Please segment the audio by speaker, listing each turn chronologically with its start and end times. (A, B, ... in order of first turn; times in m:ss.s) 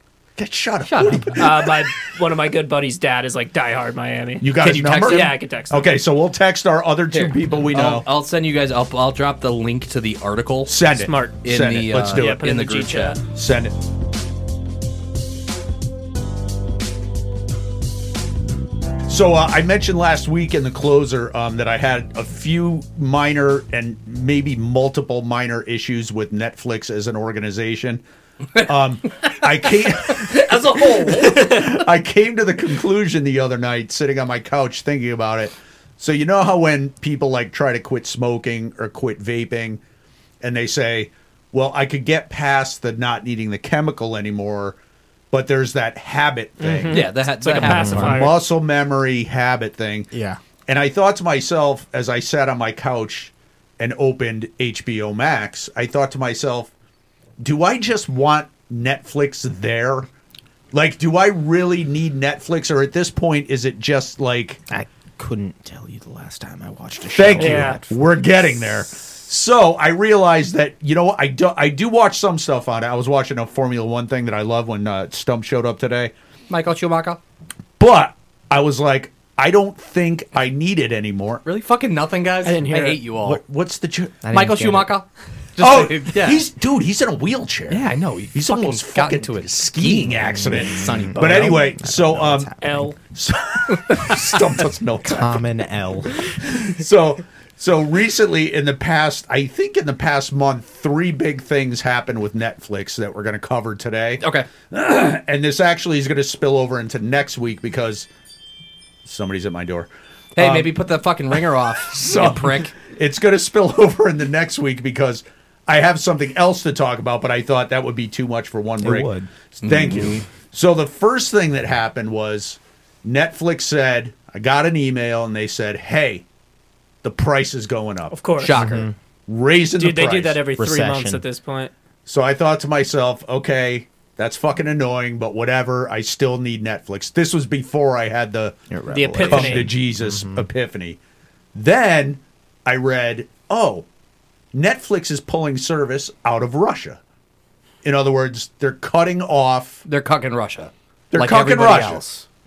0:00.4-0:01.7 A
0:00.8-0:01.5 B
0:01.3-0:05.9 C
0:04.4-0:08.0 A
0:04.8-0:05.2 B
0:07.1-0:10.8 B
0:10.7-0:12.4 A
0:10.9-0:11.4 C
0:11.4-0:13.2 B
0:12.1-0:13.2 C
0:13.3-0:13.8 A
0:19.1-0:28.0 A
0:28.6-0:39.8 A
0:29.4-0:31.8 B
0:40.4-0:44.8 A
0:45.3-0:50.1 A
0:46.6-0:48.4 C
0:46.9-0:48.3 B
0:47.9-0:48.2 D
0:50.1-0:50.4 D
0:50.7-0:56.7 A
0:57.4-1:00.1 A
1:00.7-1:04.6 A
1:04.7-1:08.1 D
1:07.2-1:16.1 A
1:07.3-1:07.8 C
1:16.5-1:17.2 B
1:17.8-1:21.4 A
1:21.4-1:23.4 B
1:22.4-1:23.0 C
1:23.2-1:24.2 A
1:24.2-1:24.9 D
1:24.3-1:26.4 B
1:25.6-1:32.5 A
1:27.7-1:31.7 B
1:30.3-1:32.9 D
1:32.6-1:33.0 C
1:33.0-1:35.4 A
1:35.0-1:36.2 D
1:36.2-1:48.1 A
1:44.2-1:44.5 B
1:49.0-1:50.7 A
1:50.4-1:52.8 B
1:51.4-2:06.2 A
1:58.8-1:59.3 D
1:59.6-2:00.2 B
2:07.0-2:08.2 A
2:08.1-2:08.5 C
2:08.4-2:08.9 B
2:08.5-2:09.0 D
2:09.3-2:10.4 A
2:09.8-2:11.7 C
2:10.6-2:11.2 D
2:12.1-2:18.6 A
2:18.7-2:20.5 D
2:18.9-2:19.7 C
2:19.2-2:21.0 A
2:21.5-2:23.8 A
2:24.5-2:27.0 A
2:27.8-2:29.8 A
2:29.9-2:32.2 B
2:31.1-2:32.0 A